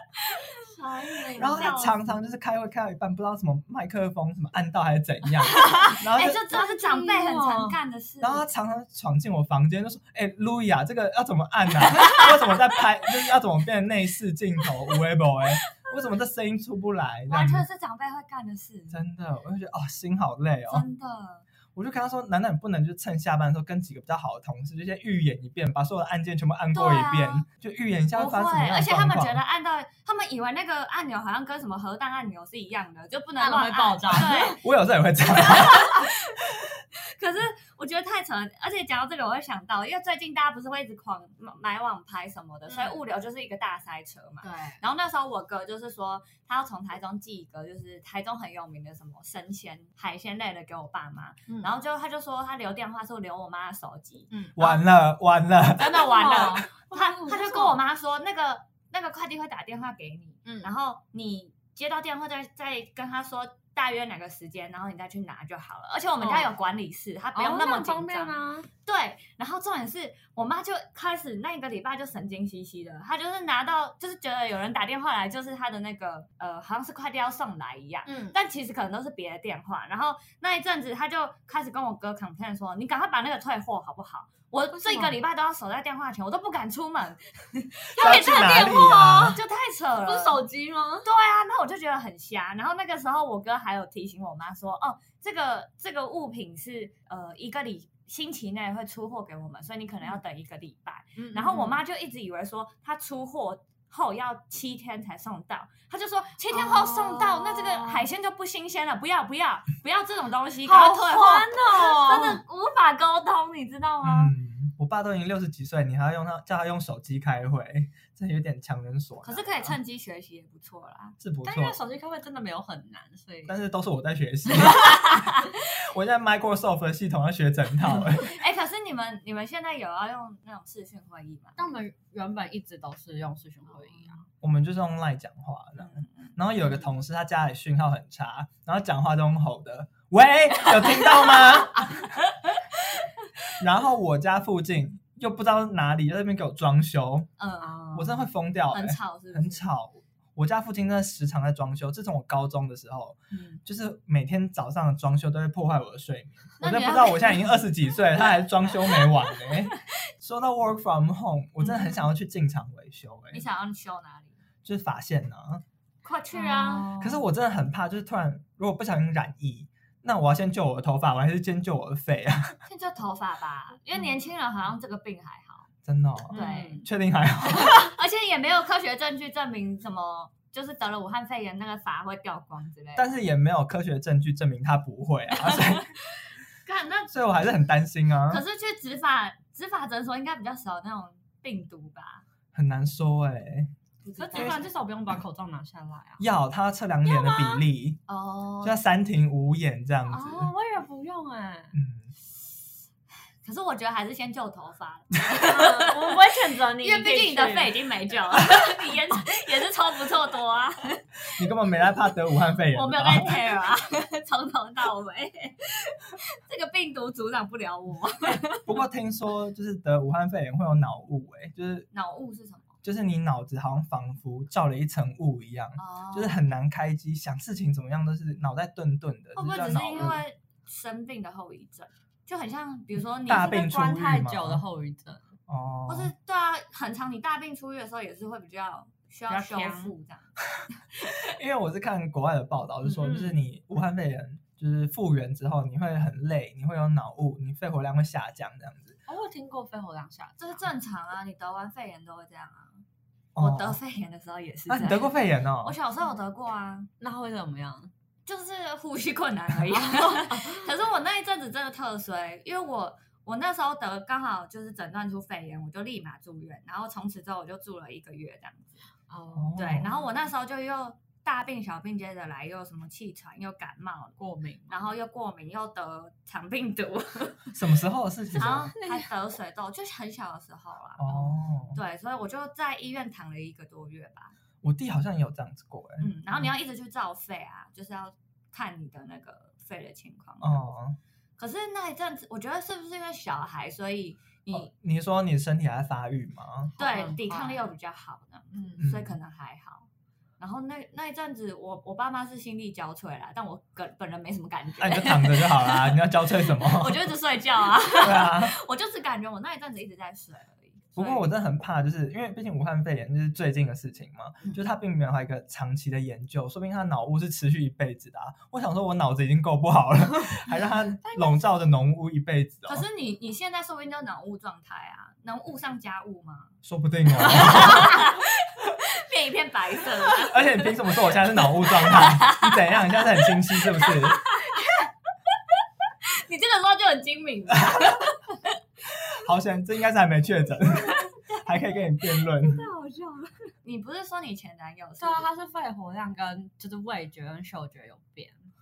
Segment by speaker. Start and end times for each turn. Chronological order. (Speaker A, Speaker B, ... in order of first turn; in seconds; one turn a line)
Speaker A: 0.3-2.0
Speaker B: 0.6-1.8
Speaker C: 1.4-6.4
Speaker B: 5.4-7.8
Speaker A: 6.0-8.4
Speaker C: 8.2-17.6
Speaker A: 17.3-19.0
Speaker C: 18.9-20.9
Speaker A: 20.7-21.4
Speaker C: 21.7-29.4
Speaker A: 26.7-27.4
Speaker A: 28.1-34.6
Speaker B: 33.4-34.6
Speaker C: 34.1-36.1
Speaker A: 35.3-54.8
Speaker B: 42.7-43.0
Speaker B: 44.4-44.8
Speaker B: 54.3-54.6
Speaker C: 54.5-56.5
Speaker A: 55.8-90.4
Speaker B: 55.8-57.8
Speaker B: 60.4-60.7
Speaker B: 66.2-66.5
Speaker B: 67.3-68.7
Speaker B: 78.0-78.3
Speaker B: 84.7-85.1
Speaker C: 87.9-89.4
Speaker B: 88.0-89.1
Speaker B: 90.0-91.1
Speaker A: 91.0-114.3
Speaker B: 101.2-101.8
Speaker B: 106.5-108.0
Speaker B: 110.6-112.4
Speaker C: 114.0-119.8
Speaker A: 119.2-121.2
Speaker C: 121.2-121.8
Speaker B: 121.4-123.6
Speaker C: 123.5-128.4
Speaker A: 128.2-131.6
Speaker B: 131.6-134.2
Speaker A: 133.8-134.1
Speaker C: 134.4-142.1
Speaker A: 135.8-136.4
Speaker C: 143.6-147.3
Speaker A: 147.4-147.9
Speaker B: 147.6-148.2
Speaker C: 147.9-163.4
Speaker A: 148.7-149.6
Speaker B: 153.3-153.6
Speaker A: 156.6-159.6
Speaker A: 161.7-162.0
Speaker A: 163.3-164.4
Speaker C: 164.6-165.6
Speaker A: 166.0-166.9
Speaker B: 166.3-167.2
Speaker C: 167.0-172.6
Speaker A: 172.7-175.7
Speaker C: 175.8-177.9
Speaker B: 176.3-176.9
Speaker A: 176.3-176.8
Speaker A: 177.5-183.2
Speaker C: 182.9-185.9
Speaker A: 185.4-185.8
Speaker A: 186.6-187.1
Speaker C: 187.1-188.4
Speaker A: 188.3-192.2
Speaker C: 192.5-193.7
Speaker A: 194.0-194.7
Speaker B: 194.2-196.2
Speaker C: 194.3-194.6
Speaker C: 196.2-198.0
Speaker B: 197.1-197.4
Speaker A: 198.1-198.8
Speaker C: 198.6-200.5
Speaker B: 200.1-201.8
Speaker C: 201.7-202.1
Speaker A: 203.4-206.2
Speaker B: 205.3-207.8
Speaker A: 206.8-211.0
Speaker C: 211.3-213.5
Speaker A: 212.7-218.6
Speaker C: 218.7-221.9
Speaker A: 221.9-222.7
Speaker C: 222.8-230.2
Speaker A: 225.8-226.4
Speaker A: 229.3-233.6
Speaker C: 233.2-234.6
Speaker B: 233.3-235.3
Speaker C: 235.5-236.1
Speaker A: 235.9-240.3
Speaker B: 239.3-239.9
Speaker A: 240.9-241.3
Speaker C: 241.2-249.0
Speaker B: 242.9-243.4
Speaker B: 249.1-250.6
Speaker A: 250.4-252.8
Speaker C: 253.3-253.8
Speaker A: 253.4-256.9
Speaker C: 254.7-255.7
Speaker B: 257.0-257.9
Speaker A: 258.2-268.8
Speaker B: 259.7-260.7
Speaker B: 269.1-270.0
Speaker C: 269.3-269.9
Speaker A: 269.6-274.2
Speaker B: 274.2-274.9
Speaker A: 274.7-277.6
Speaker C: 277.5-278.7
Speaker A: 278.3-281.1
Speaker B: 278.4-279.1
Speaker C: 281.0-281.8
Speaker A: 281.7-284.4
Speaker C: 284.6-286.5
Speaker A: 286.0-290.6
Speaker C: 290.4-291.0
Speaker A: 291.4-294.7
Speaker C: 294.5-296.7
Speaker B: 296.8-297.7
Speaker A: 296.8-299.9
Speaker B: 298.5-298.8
Speaker C: 298.8-299.2
Speaker A: 300.4-311.3
Speaker C: 304.8-307.1
Speaker C: 308.0-308.5
Speaker C: 310.9-322.8
Speaker B: 321.0-321.4
Speaker A: 322.7-326.5
Speaker C: 326.6-328.0
Speaker A: 327.2-338.4
Speaker C: 330.2-334.2
Speaker C: 337.6-338.0
Speaker C: 339.1-342.7
Speaker A: 340.8-345.3
Speaker B: 345.0-348.5